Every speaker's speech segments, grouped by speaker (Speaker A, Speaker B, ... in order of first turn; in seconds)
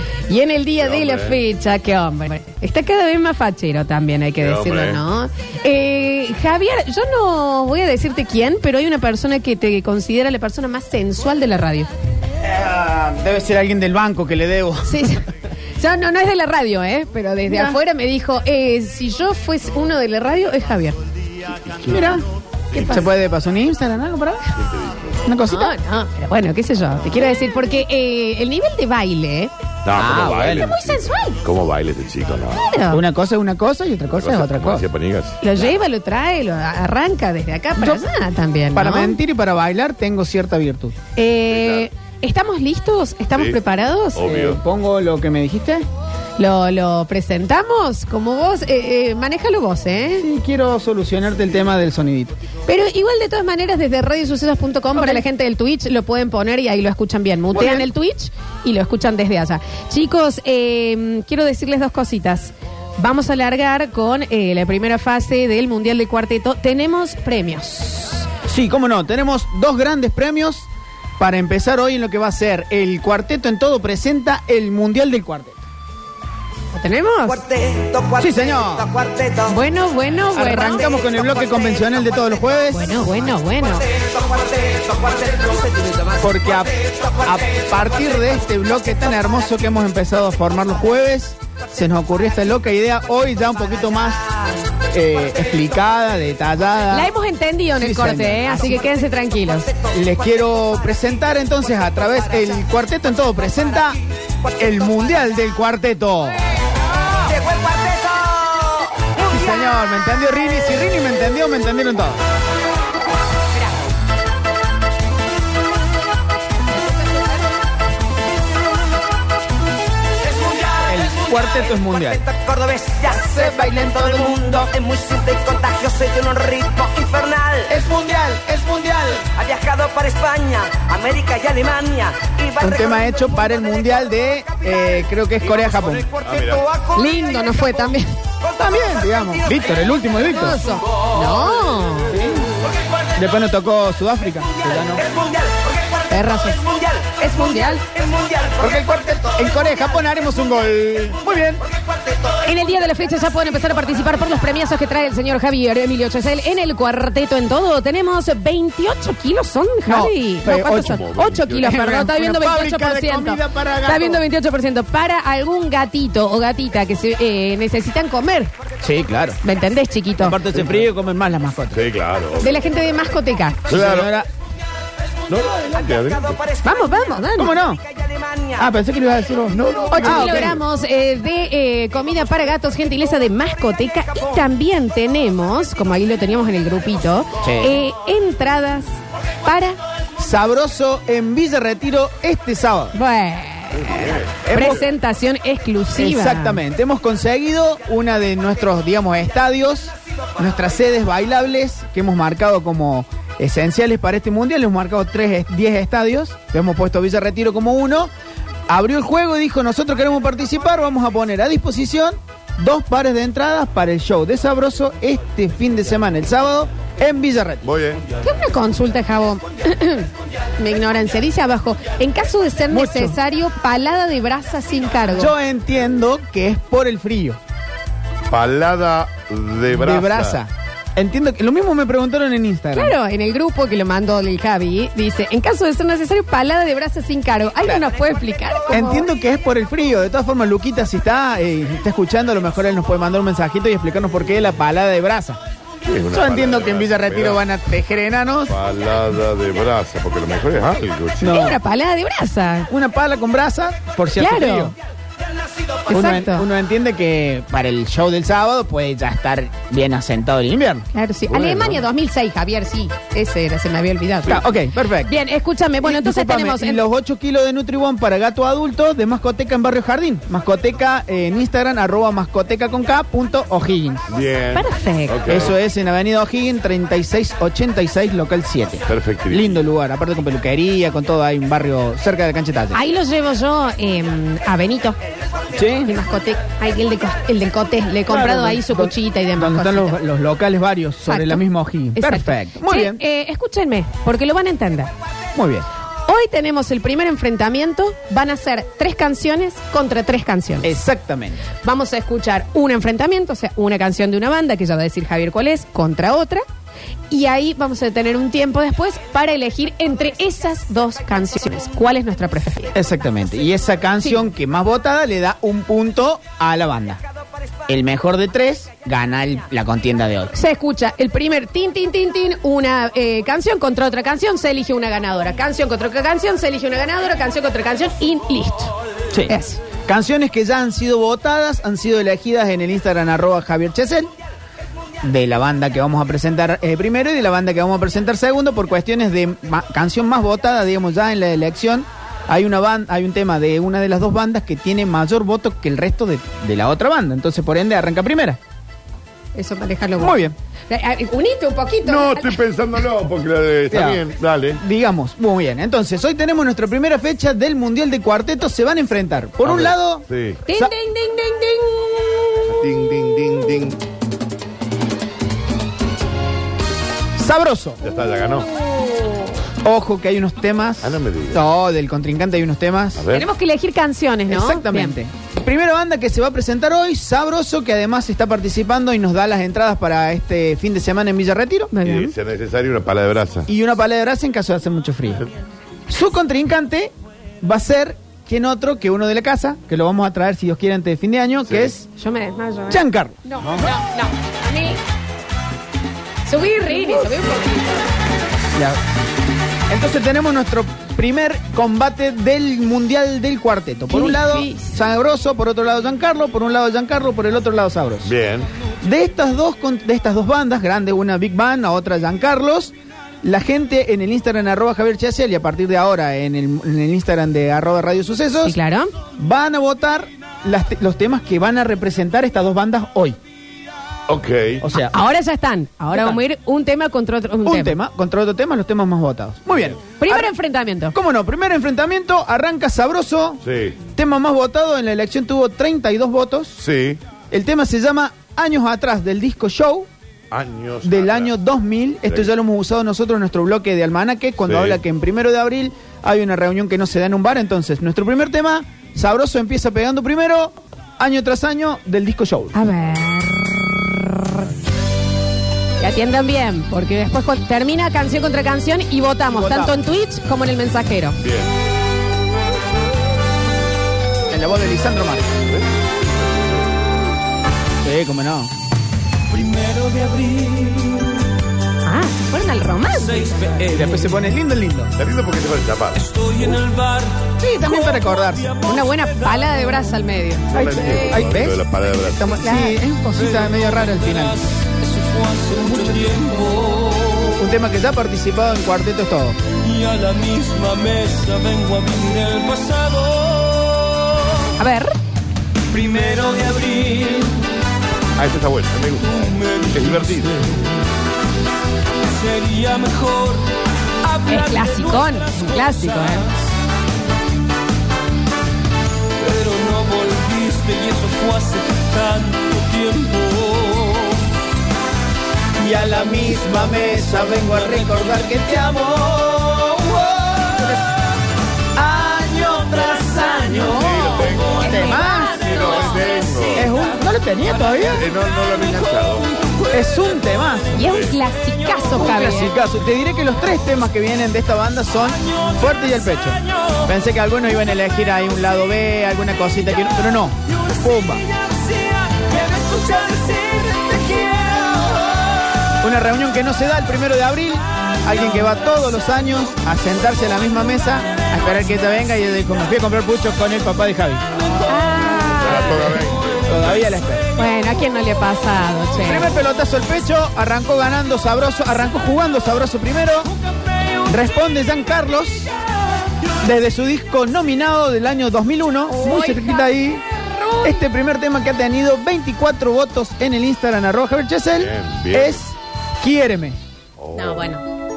Speaker A: 0.3-11.9, 14.8-15.2, 15.8-21.0, 25.5-29.5, 30.5-31.4, 32.7-33.0, 35.4-39.2, 41.1-44.2, 46.4-50.2, 52.7-68.3, 76.7-77.4, 79.5-80.8, 82.7-83.8, 96.9-99.7, 116.8-117.3, 136.9-138.2, 140.2-142.2, 146.1-146.6, 147.2-147.8, 152.4-168.5, 169.4-170.4, 172.4-173.7, 176.6-177.5, 179.9-189.8, 192.9-196.6, 218.2-225.3, 232.7-239.1, 251.2-252.7, 254.2-254.7, 255.9-256.5, 260.9-264.4, 265.1-266.8, 274.5-275.3, 282.7-285.0, 285.8-289.9, 291.1-291.4, 291.9-294.9, 296.1-300.7, 301.6-306.4, 307.1-312.7, 320.3-328.7, 329.3-329.6, 349.3-352.4, 360.5-362.4, 373.1-374.9, 381.7-382.1, 391.9-394.8, 396.2-397.9, 403.9-404.7, 418.4-418.9, 424.7-427.8, 430.0-430.9, 452.5-454.3, 455.8-461.2, 471.8-473.3, 478.6-481.1, 482.4-482.8, 494.6-494.9, 504.3-506.3, 523.6-526.4, 530.7-532.5, 554.7-556.0, 557.4-559.3, 568.9-570.8, 577.1-577.6
Speaker B: 0.8-1.4, 4.4-5.0, 21.7-22.1, 24.6-25.2, 29.8-32.7, 34.1-35.7, 41.5-41.9, 44.1-44.6, 136.2-136.6, 160.7-161.7, 171.7-172.6, 173.7-174.1, 175.3-176.4, 179.5-180.6, 193.8-194.8, 217.6-218.0, 228.3-230.4, 245.8-247.4, 248.5-251.5, 274.1-275.5, 278.9-279.5, 351.8-354.6, 359.4-360.4, 362.5-363.8, 367.8-368.5, 370.8-371.4, 373.0-373.2, 381.8-383.4, 391.5-391.7, 408.0-408.5, 424.1-424.6, 433.4-433.8, 436.6-437.0, 440.3-441.3, 444.4-444.8, 461.2-461.5, 465.5-466.7, 475.0-476.0, 480.5-482.4, 498.2-500.5, 523.8-524.6, 525.4-526.7, 527.9-529.3, 530.8-531.1, 555.4-556.8, 574.5-575.4, 577.0-577.5
Speaker C: 12.4-15.0, 17.5-17.8, 21.9-24.4, 25.2-25.7, 29.9-30.7, 32.9-34.9, 37.8-38.0, 38.7-41.0, 44.2-45.8, 50.2-52.3, 54.9-55.2, 57.5-57.9, 68.4-70.7, 71.2-75.6, 78.2-78.9, 80.3-83.1, 86.2-86.7, 87.2-94.2, 94.9-97.1, 97.8-98.8, 99.9-104.0, 104.6-106.4, 109.3-112.2, 120.8-122.2, 123.1-124.7, 127.7-129.2, 132.6-136.1, 138.6-140.6, 142.1-142.4, 143.2-145.0, 148.6-151.6, 159.8-161.0, 161.6-164.2, 168.8-169.4, 170.2-171.8, 173.7-174.3, 177.3-177.8, 178.6-180.6, 187.4-187.7, 190.2-192.9, 194.4-194.8, 195.9-208.1, 208.7-217.7, 222.7-223.2, 225.1-227.4, 229.7-232.9, 238.7-245.4, 246.1-248.5, 251.2-251.6, 252.7-254.7, 255.9-261.8, 264.3-265.1, 265.8-274.1, 275.3-282.8, 285.5-285.9, 288.1-293.0, 295.3-295.7, 300.6-301.4, 312.7-317.0, 317.7-320.3, 329.8-334.1, 335.0-348.4, 350.0-350.3, 353.7-354.0, 354.6-360.7, 367.1-367.8, 369.6-373.0, 374.3-381.7, 383.5-385.2, 385.9-391.8, 392.7-393.6, 399.7-408.1, 408.8-418.6, 419.1-423.2, 424.6-424.9, 425.9-426.2, 427.4-430.3, 430.9-436.6, 437.3-439.9, 440.8-452.5, 459.3-459.8, 464.3-465.3, 467.8-468.5, 473.7-474.9, 477.4-478.5, 480.5-484.4, 485.6-486.2, 487.4-489.4, 515.6-520.8, 521.8-525.8, 526.5-528.0, 529.7-530.7, 531.9-541.2, 545.8-554.3, 556.5-557.2, 559.0-563.3, 564.1-565.5, 566.4-570.0, 570.6-576.6
Speaker D: 77.2-79.5, 80.7-82.5, 83.8-86.2, 86.9-87.3, 107.2-109.7, 120.2-127.7, 129.3-134.9, 135.5-137.8, 138.4-139.9, 144.7-149.4, 175.7-176.8, 177.8-178.7
Speaker E: 469.3-471.1, 472.9-474.2, 475.9-477.4, 477.9-479.9, 483.1-487.4, 489.6-494.2, 495.7-497.4, 499.0-500.7, 502.1-503.5, 504.0-506.4, 509.2-514.2, 528.6-528.9, 541.4-545.2